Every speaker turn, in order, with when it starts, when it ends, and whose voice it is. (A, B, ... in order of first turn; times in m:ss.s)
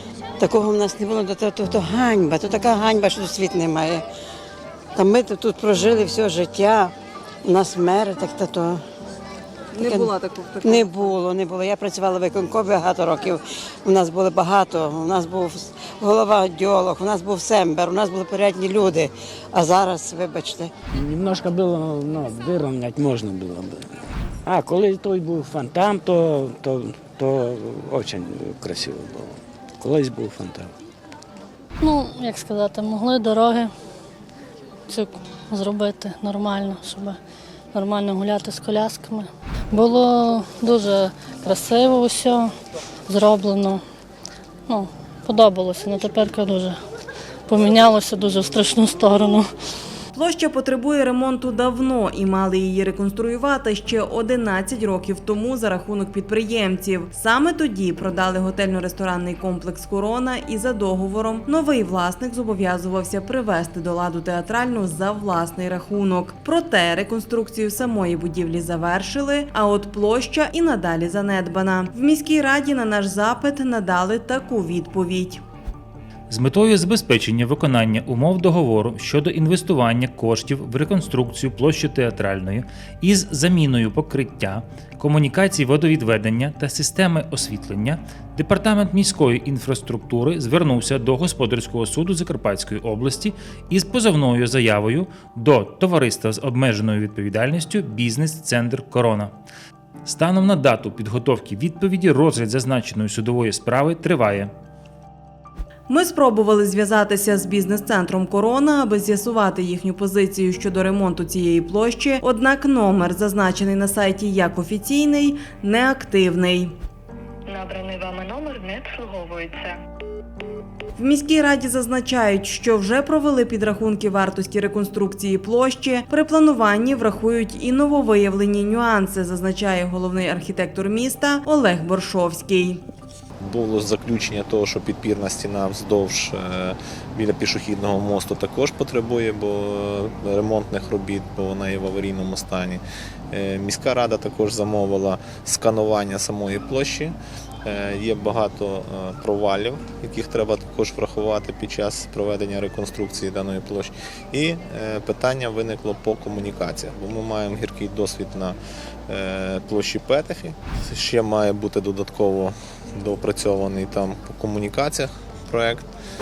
0:00.4-0:04.0 A
0:04.9-0:08.8 A
0:09.8-0:20.7 A
0:09.8-0:10.8 B
0:20.9-0:30.7 C
0:31.8-0:33.7 D
0:34.9-0:37.2 D
0:37.7-0:42.5 D
0:43.1-0:43.8 D
0:44.7-0:46.8 D
0:47.5-0:49.5 D
0:50.1-1:15.4 B
1:16.3-1:39.3 E
1:40.0-1:44.5 E
1:45.9-1:56.7 B
1:57.5-1:59.8 F
2:01.0-2:12.8 B
2:13.4-2:38.6 G
2:39.1-2:45.9 G